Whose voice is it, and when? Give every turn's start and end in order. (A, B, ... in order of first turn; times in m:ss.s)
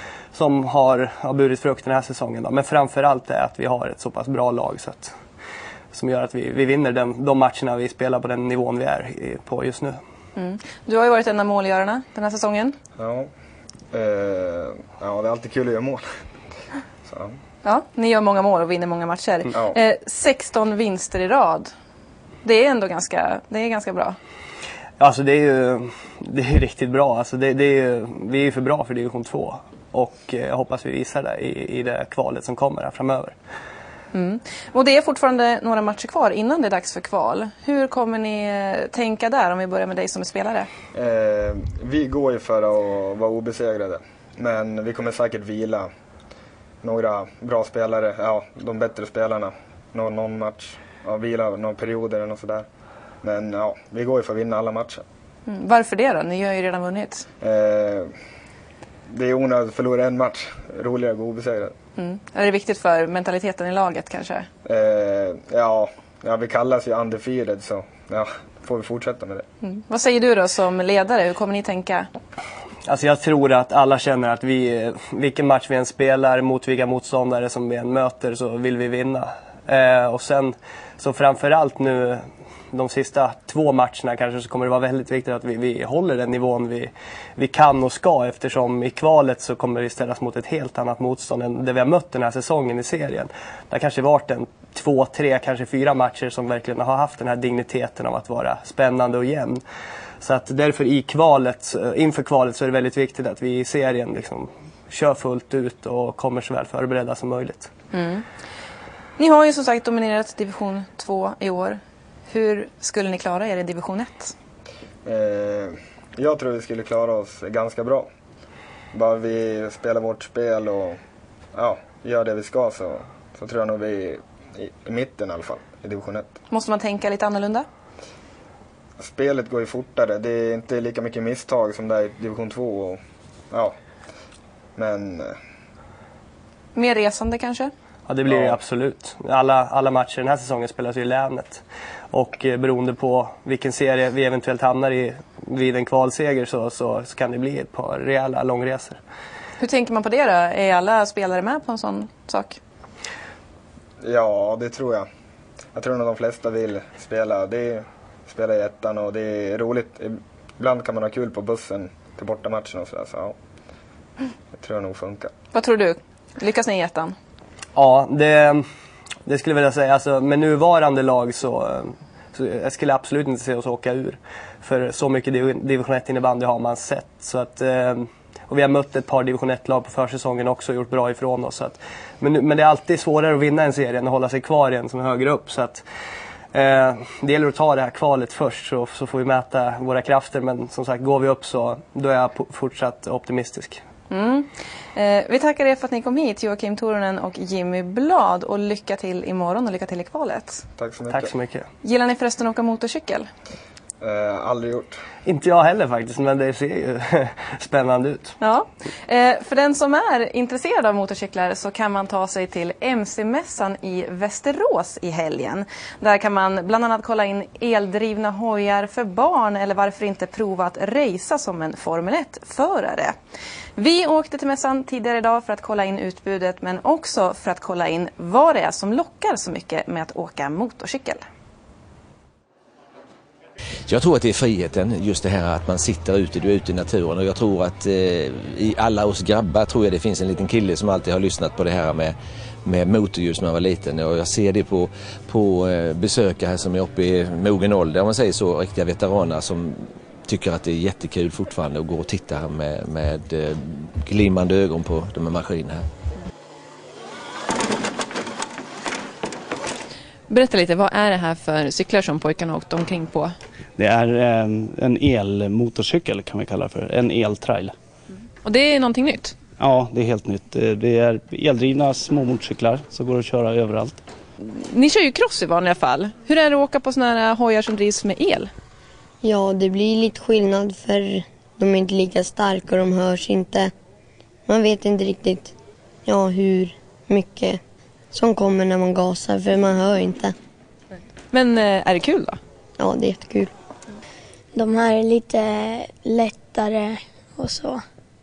0:00.3-0:05.2 A
0:05.9-0:10.0 A
0:10.4-0:12.8 B
0:13.0-0:13.3 C
0:13.9-0:16.0 C
0:17.0-0:17.3 C
0:17.6-0:21.7 B
0:22.4-0:24.2 B
0:25.0-0:33.4 A
0:34.1-0:40.7 B
0:40.9-0:45.9 C
0:46.8-0:52.6 C
0:53.2-0:55.0 C
0:55.5-0:57.2 B
0:57.4-0:58.1 C
0:59.1-1:01.7 C
1:02.0-1:04.5 B
1:04.6-1:09.4 C
1:09.6-1:12.1 B
1:12.8-1:39.6 A
1:40.2-1:47.7 A
1:47.9-1:48.2 B
1:49.2-1:54.3 B
1:55.0-1:58.1 C
1:58.9-2:01.0 C
2:01.5-2:06.3 C
2:06.5-2:07.6 B
2:09.0-2:13.0 C
2:14.8-2:15.4 C
2:16.7-2:17.7 B
2:18.0-2:29.0 A
2:18.2-2:18.6 C
2:29.6-2:32.6 B
2:34.0-2:35.1 C
2:35.7-2:43.3 C
2:44.6-2:45.3 C
2:45.5-2:47.1 B
2:47.7-2:48.6 A
2:49.2-3:05.8 A
3:06.5-3:13.8 A
3:14.1-3:20.6 B
3:20.8-3:21.3 C
3:21.1-3:21.7 A
3:21.8-3:23.3 B
3:24.0-3:25.0 C
3:25.2-3:28.3 A
3:28.4-3:43.1 B
3:43.8-3:51.2 B
3:53.9-4:02.1 D
4:02.7-4:09.7 D
4:10.3-4:13.4 D
4:14.1-4:15.8 D
4:20.3-4:23.3 B
4:23.8-4:27.7 E
4:28.4-4:29.3 B
4:29.6-4:34.0 E
4:34.4-4:38.5 B
4:39.2-4:43.7 F
4:44.5-4:45.5 F
4:46.0-4:47.6 F
4:48.1-4:50.3 F
4:51.3-4:52.4 B
4:52.8-4:53.5 F
4:54.5-4:57.8 G